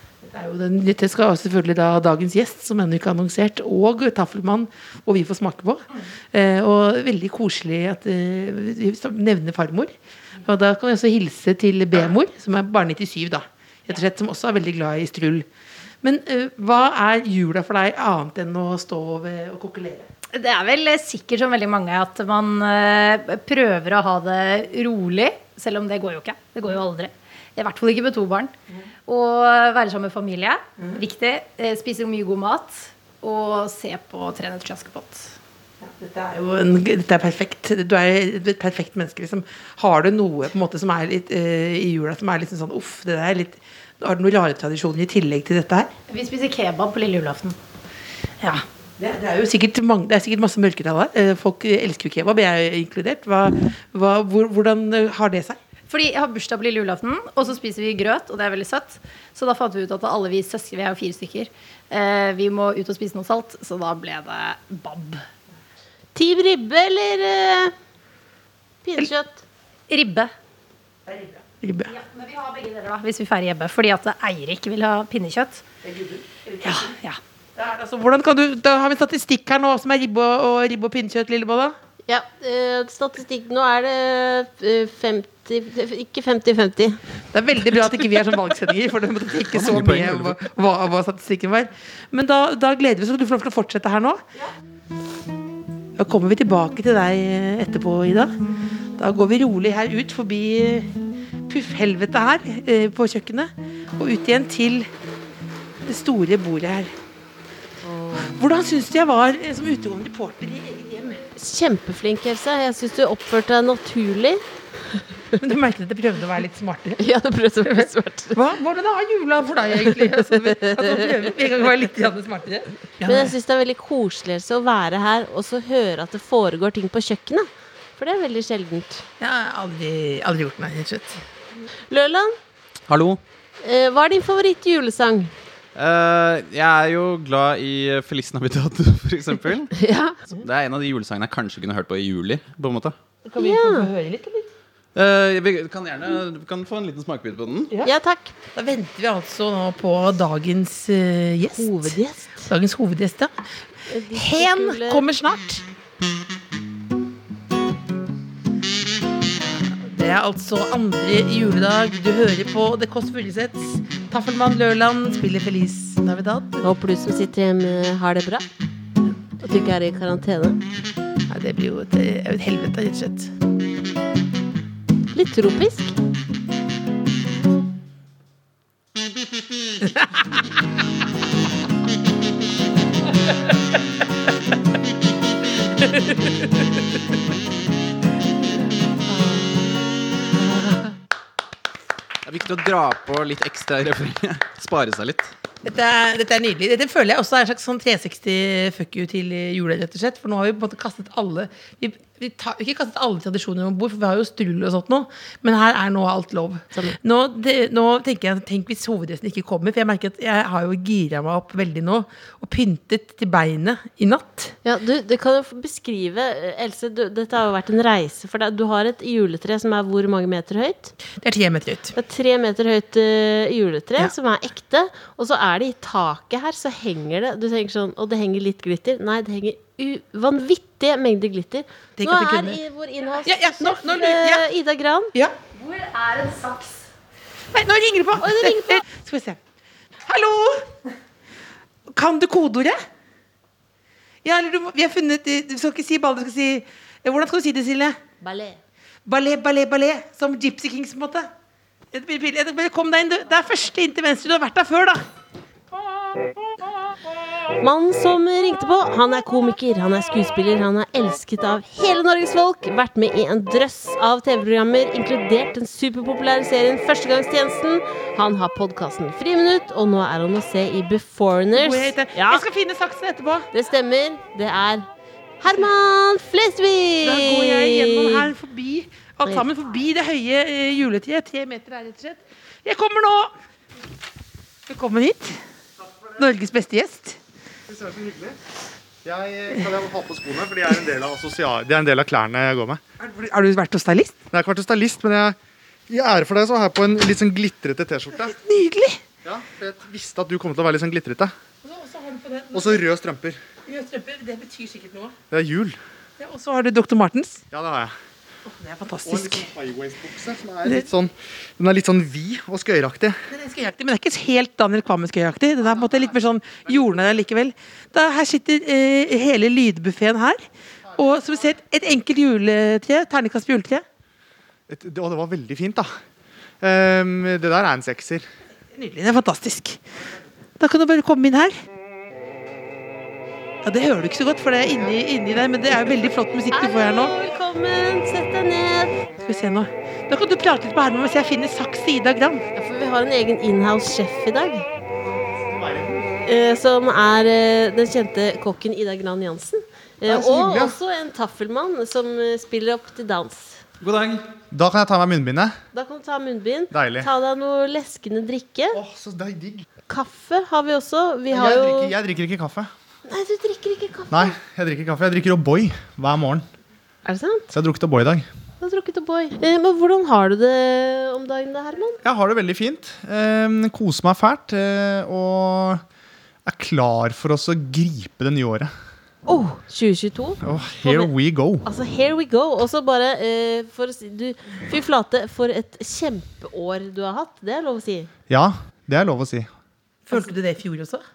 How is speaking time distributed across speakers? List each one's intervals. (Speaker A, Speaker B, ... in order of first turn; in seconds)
Speaker A: 0.2-15.4, 16.0-20.1, 35.8-45.9, 49.0-55.6, 71.0-71.9, 75.9-76.9, 77.5-81.7, 87.3-94.2, 96.0-98.3, 99.0-100.9, 101.5-104.9, 105.8-106.9, 108.2-111.2, 115.4-117.0, 117.7-123.3, 129.2-131.2, 143.2-144.5, 148.5-151.9, 152.5-153.3, 154.1-155.6, 159.8-166.6, 171.3-173.3, 179.8-180.1, 189.1-189.4, 195.6-214.5, 221.2-221.9, 232.0-232.6, 233.2-234.5, 237.5-239.4, 240.0-240.7, 241.9-242.8, 244.2-248.0, 249.1-251.3, 251.9-255.0, 271.5-273.5, 277.0-283.3, 284.7-285.4, 286.2-287.2, 293.0-294.2, 298.2-299.0, 301.6-302.8, 303.6-305.1, 306.2-307.4, 308.4-309.5, 313.3-320.4, 320.9-323.8, 328.7-329.8, 330.6-331.6, 333.6-337.1, 339.2-342.4, 390.1-391.0
Speaker B: 20.3-28.5, 29.1-35.4, 46.1-47.6, 55.9-65.2, 69.9-70.3, 71.9-75.6, 76.6-77.2, 235.5-236.9
Speaker C: 66.1-67.7, 68.8-69.4, 82.1-87.0, 107.8-108.3, 111.3-114.4, 117.0-118.4, 120.4-121.0, 123.0-129.0, 131.9-132.3, 133.6-135.3, 139.8-140.2, 143.4-143.9, 147.8-148.3, 151.5-152.5, 153.9-155.0, 166.6-168.4, 169.4-170.6, 175.1-175.9, 214.6-220.9, 221.9-235.1, 238.2-238.8, 248.2-248.6, 257.6-272.4, 273.5-274.9, 275.4-278.3, 336.5-339.0, 342.5-344.6, 346.2-353.6, 355.7-358.8, 359.9-361.9, 363.1-364.3, 367.0-367.5, 368.6-372.0, 379.2-381.1, 381.6-388.1
Speaker D: 89.5-90.4, 287.7-288.4, 289.0-292.8, 294.3-295.4, 295.9-298.3, 299.2-301.3, 302.5-303.4, 305.3-305.8, 307.5-307.9, 309.0-313.2, 320.9-321.4, 324.7-326.0, 326.6-328.2, 345.3-346.1, 350.0-350.8, 354.5-355.5, 356.7-357.1, 358.7-359.6, 361.3-362.7, 364.1-366.4, 367.5-368.3, 372.0-375.8, 376.4-378.7, 380.4-381.6, 388.3-389.5
Speaker E: 132.9-133.2, 135.7-139.7, 140.3-142.9, 144.9-147.7, 192.2-195.3, 353.8-354.2